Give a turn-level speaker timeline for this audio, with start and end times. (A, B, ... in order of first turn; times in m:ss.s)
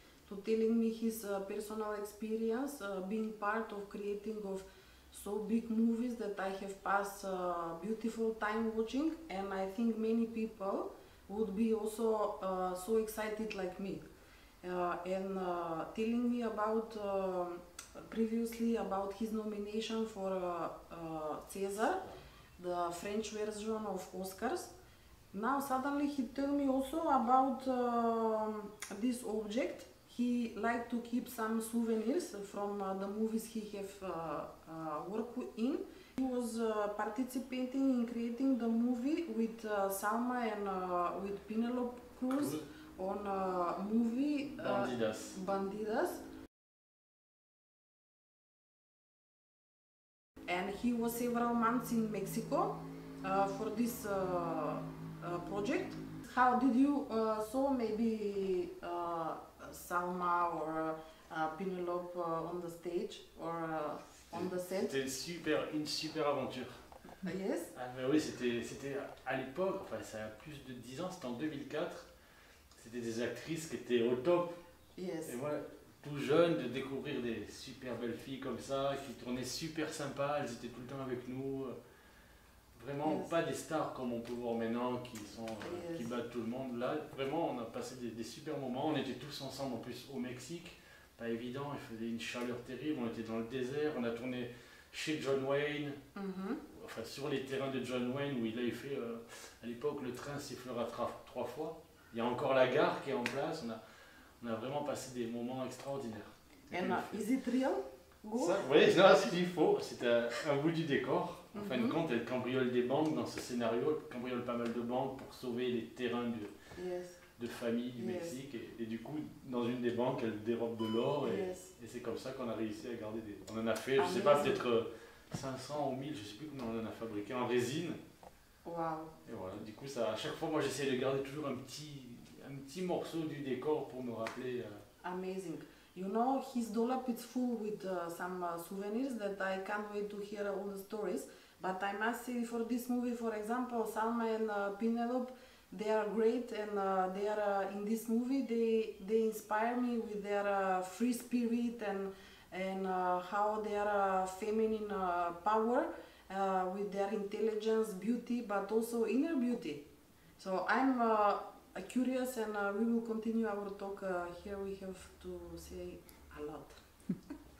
0:00.3-0:14.1 A
0:14.6-0:22.0 A
0:22.6-0:24.7 A
0:25.3-0:46.2 A
0:42.3-0:42.6 B
0:44.5-0:45.4 B
0:50.5-1:04.9 A
1:04.3-1:06.8 B
1:07.2-1:07.7 A
1:07.7-1:12.1 B
1:12.7-1:14.6 B
1:15.0-1:15.4 A
1:15.2-1:21.8 B
1:22.7-1:36.0 B
1:23.0-1:23.3 A
1:25.6-1:26.1 A
1:36.1-1:36.6 A
1:36.7-1:43.8 B
1:44.4-1:47.2 B
1:46.7-1:48.6 A
1:48.4-1:56.5 B
1:51.5-1:52.0 A
1:56.7-1:57.2 A
1:57.4-2:08.0 B
1:58.0-1:58.4 A
2:01.2-2:01.7 A
2:04.0-2:04.6 A
2:08.6-2:09.1 A
2:09.2-2:14.8 B
2:15.0-2:39.8 A
2:40.4-2:46.7 A